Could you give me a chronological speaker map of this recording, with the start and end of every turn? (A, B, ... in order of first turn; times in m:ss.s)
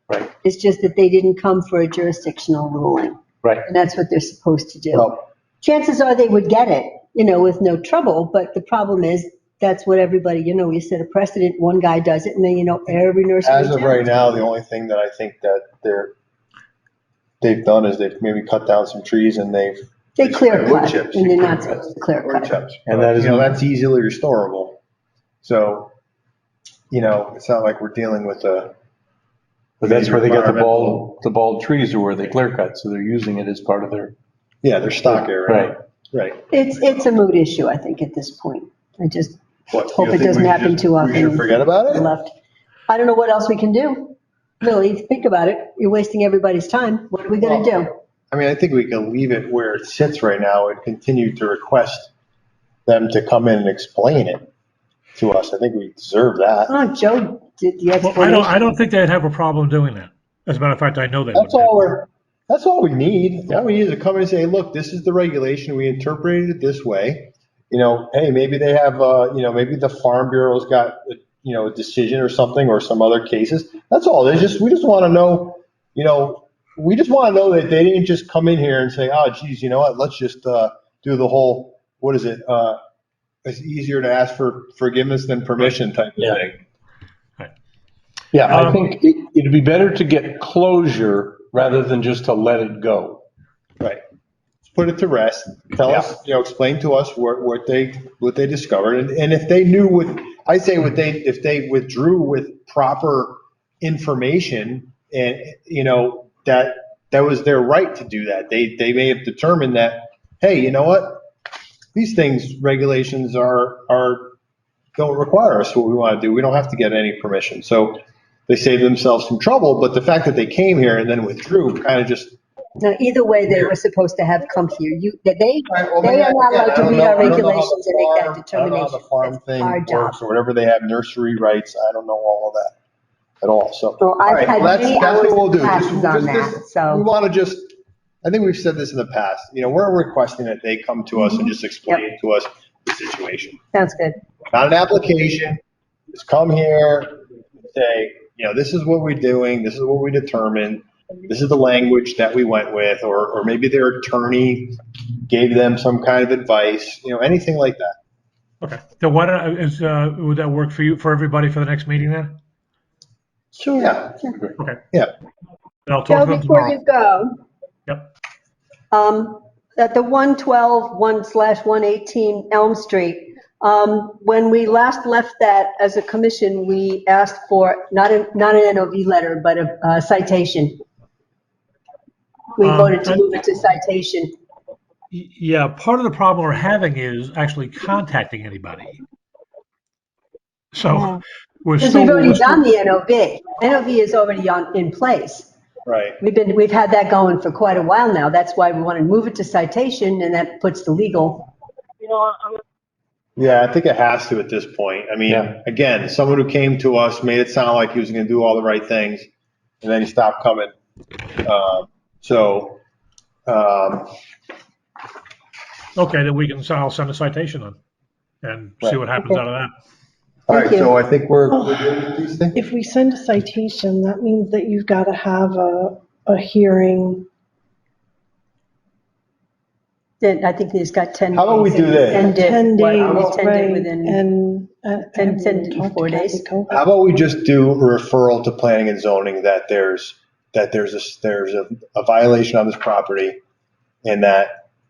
0:00.4-0:14.4 A
0:13.4-0:16.1 B
0:17.4-0:24.8 B
0:20.2-0:22.5 A
0:22.9-0:23.5 C
0:25.4-0:25.9 B
0:26.9-0:28.7 B
0:29.8-0:34.2 C
0:29.8-0:31.0 B
0:34.6-0:36.5 B
0:35.5-0:35.8 C
0:36.5-0:42.3 A
0:39.7-0:42.1 B
0:42.9-0:47.9 A
0:47.4-0:47.7 B
0:48.3-0:52.1 B
0:52.9-0:54.4 B
0:55.2-0:56.7 B
0:56.7-0:58.7 A
0:58.0-1:01.7 D
1:01.3-1:22.8 B
1:23.4-1:26.6 B
1:28.3-1:33.2 C
1:28.5-1:28.8 D
1:34.7-1:51.2 B
1:51.9-1:54.3 B
1:55.0-2:02.4 B
2:02.8-2:10.2 A
2:05.7-2:12.7 B
2:13.4-2:17.7 B
2:14.0-2:17.0 A
2:18.2-2:23.6 B
2:21.2-2:22.0 A
2:23.7-2:24.2 A
2:24.5-2:25.6 B
2:26.1-2:27.2 B
2:27.7-2:38.0 B
2:38.6-2:42.3 D
2:43.6-2:43.9 E
2:43.8-2:44.1 B
2:45.9-2:46.8 D
2:46.1-2:47.4 A
2:48.9-3:00.8 A
3:02.6-3:04.3 A
3:02.6-3:03.2 D
3:05.1-3:09.0 D
3:10.7-3:12.6 D
3:11.8-3:15.5 A
3:15.9-3:16.2 B
3:16.2-3:21.5 A
3:23.4-3:29.3 B
3:25.3-3:25.6 C
3:29.8-3:30.7 B
3:31.4-3:32.8 B
3:33.5-3:34.1 B
3:36.0-3:37.8 D
3:38.4-3:39.7 D
3:40.5-3:42.6 B
3:40.5-3:40.9 A
3:41.5-3:41.8 E
3:42.5-3:47.3 E
3:50.2-3:54.2 A
3:51.3-3:52.3 B
3:52.2-3:56.8 E
3:53.0-3:53.3 B
3:55.1-3:56.4 A
3:56.7-4:03.4 B
4:04.0-4:04.5 B